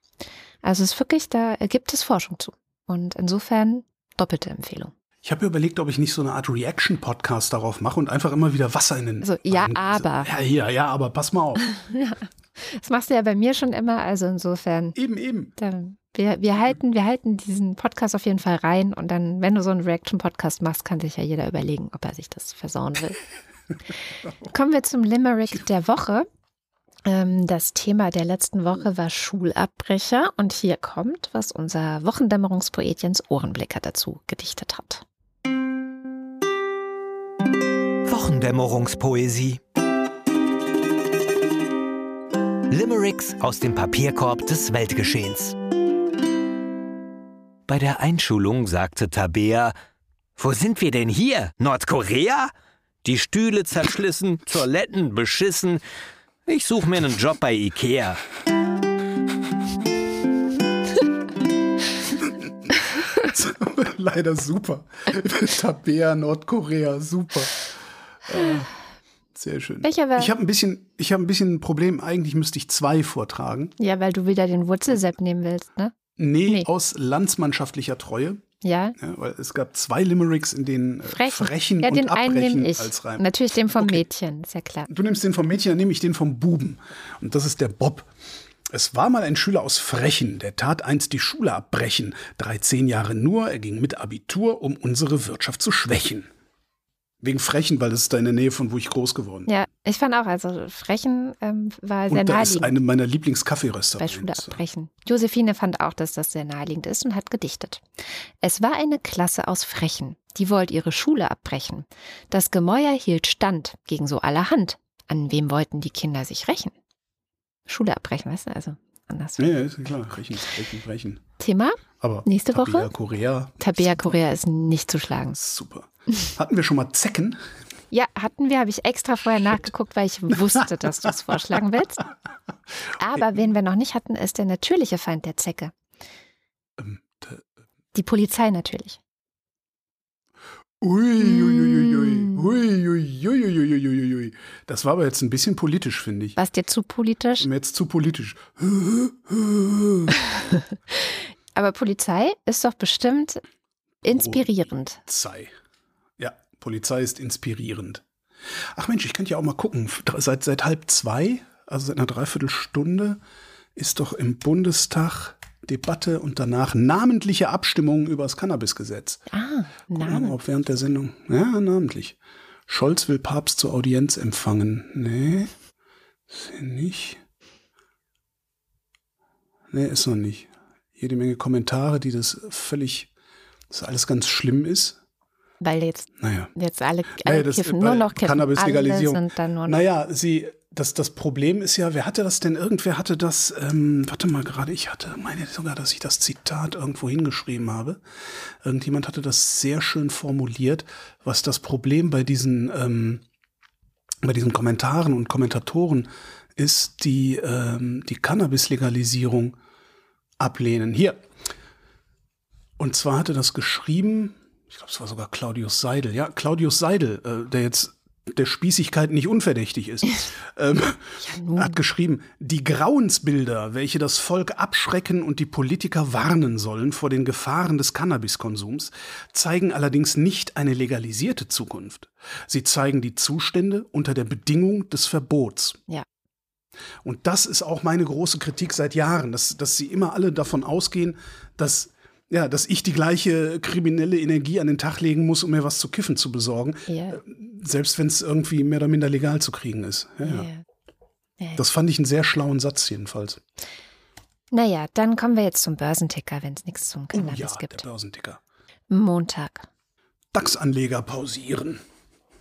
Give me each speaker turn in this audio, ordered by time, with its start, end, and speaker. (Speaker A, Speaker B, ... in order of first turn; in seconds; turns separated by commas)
Speaker A: 0.6-4.9, Speaker B: 5.2-11.7, Speaker A: 9.2-10.3, Speaker A: 11.8-14.9, Speaker B: 14.9-15.5, Speaker A: 15.6-23.2, Speaker A: 24.5-26.2, Speaker A: 27.1-35.0, Speaker C: 38.0-39.6, Speaker C: 42.7-45.5, Speaker C: 47.7-49.7, Speaker C: 50.4-52.5, Speaker C: 53.0-55.8, Speaker C: 56.5-58.2, Speaker B: 63.1-67.7, Speaker B: 68.2-68.7, Speaker B: 69.3-73.7, Speaker A: 69.8-70.3, Speaker A: 73.8-75.9, Speaker B: 76.2-78.4, Speaker A: 78.6-79.0, Speaker B: 79.0-84.0, Speaker A: 81.1-84.9, Speaker B: 84.9-88.1, Speaker B: 88.7-96.3, Speaker B: 97.2-99.5, Speaker A: 99.5-102.7, Speaker B: 102.1-104.6, Speaker A: 104.0-107.8, Speaker A: 108.4-116.7, Speaker A: 117.7-119.5, Speaker B: 119.4-121.2, Speaker A: 121.4-122.9, Speaker B: 122.0-124.1, Speaker A: 123.6-125.4, Speaker B: 125.3-127.4, Speaker A: 127.9-132.1, Speaker A: 133.0-135.7, Speaker B: 136.8-137.4, Speaker A: 137.9-139.0, Speaker B: 140.8-146.3, Speaker A: 141.2-142.4, Speaker A: 146.3-147.5, Speaker B: 147.4-150.1, Speaker A: 150.3-153.4, Speaker A: 154.0-155.0, Speaker B: 154.1-154.5, Speaker B: 155.0-155.5, Speaker B: 156.2-163.2, Speaker B: 163.8-169.2, Speaker A: 169.3-170.3, Speaker B: 169.9-172.2, Speaker B: 172.7-175.5, Speaker B: 176.3-177.2, Speaker B: 179.7-183.1, Speaker B: 183.7-185.0, Speaker A: 185.6-189.8, Speaker B: 186.2-186.5, Speaker B: 187.2-198.0, Speaker B: 198.6-203.2, Speaker B: 204.2-209.6, Speaker B: 210.4-211.2, Speaker B: 212.8-235.8, Speaker A: 221.2-221.8, Speaker B: 237.0-250.5, Speaker A: 246.9-247.2, Speaker A: 250.2-250.6, Speaker B: 251.6-253.4, Speaker A: 254.5-257.8, Speaker B: 257.1-258.4, Speaker A: 258.9-259.7, Speaker B: 260.3-261.8